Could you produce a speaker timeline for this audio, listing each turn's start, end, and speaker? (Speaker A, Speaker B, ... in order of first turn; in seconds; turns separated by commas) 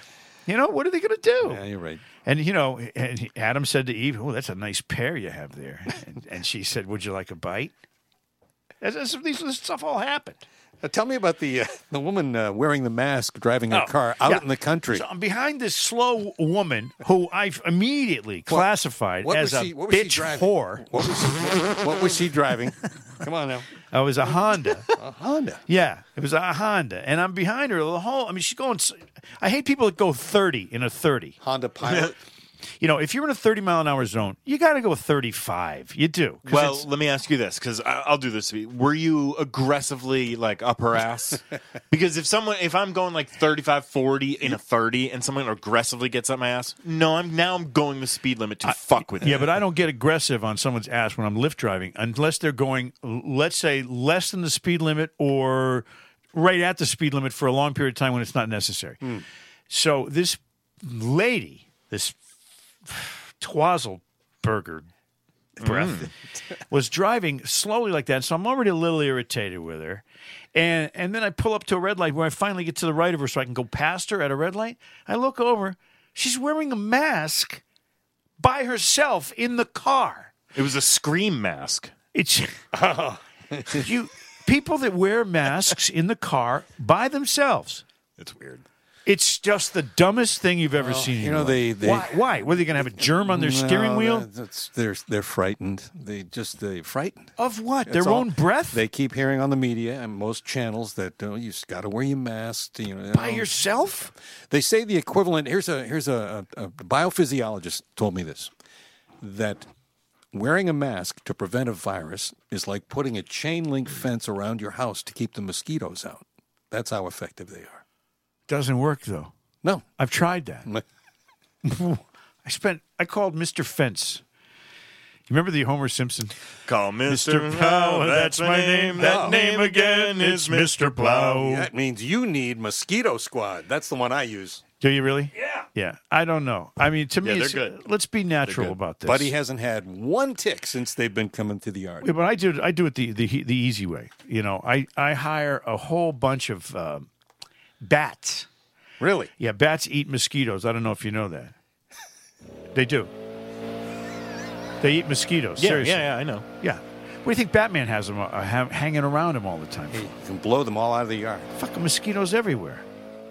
Speaker A: 0.5-1.6, Speaker B: 1.4-2.0, Speaker A: 2.2-7.7, Speaker A: 8.8-10.4, Speaker B: 10.8-15.0, Speaker A: 13.7-21.1, Speaker B: 19.2-23.7, Speaker A: 23.9-24.9, Speaker B: 24.9-25.6, Speaker A: 25.7-31.4, Speaker B: 31.4-32.1, Speaker C: 31.8-32.1, Speaker A: 32.8-36.8, Speaker C: 36.5-49.5, Speaker A: 48.6-59.2, Speaker A: 59.7-62.2, Speaker A: 62.8-64.9, Speaker A: 65.6-66.1, Speaker C: 65.6-66.1, Speaker A: 66.7-77.6, Speaker A: 78.4-80.3, Speaker C: 80.5-81.9, Speaker A: 82.1-82.5, Speaker B: 82.7-83.8, Speaker A: 83.7-87.8, Speaker C: 88.2-88.6, Speaker A: 89.0-94.3, Speaker B: 90.8-97.3, Speaker A: 97.4-98.8, Speaker B: 97.8-103.5, Speaker A: 103.1-104.1, Speaker B: 104.5-108.5, Speaker B: 109.2-109.7, Speaker B: 110.3-117.8, Speaker A: 118.5-119.3, Speaker A: 120.0-120.7, Speaker A: 121.6-124.2, Speaker A: 125.3-126.4, Speaker C: 126.7-131.3, Speaker A: 127.0-131.7, Speaker B: 129.0-129.4, Speaker B: 131.1-134.6, Speaker A: 134.8-139.3, Speaker C: 137.2-137.8, Speaker C: 138.4-138.8, Speaker B: 139.0-142.1, Speaker A: 142.0-147.1, Speaker A: 147.8-148.5, Speaker B: 149.0-149.3, Speaker A: 149.4-151.5, Speaker A: 152.7-153.1, Speaker A: 154.8-160.1, Speaker C: 155.6-156.4, Speaker B: 159.9-161.5, Speaker A: 161.5-162.8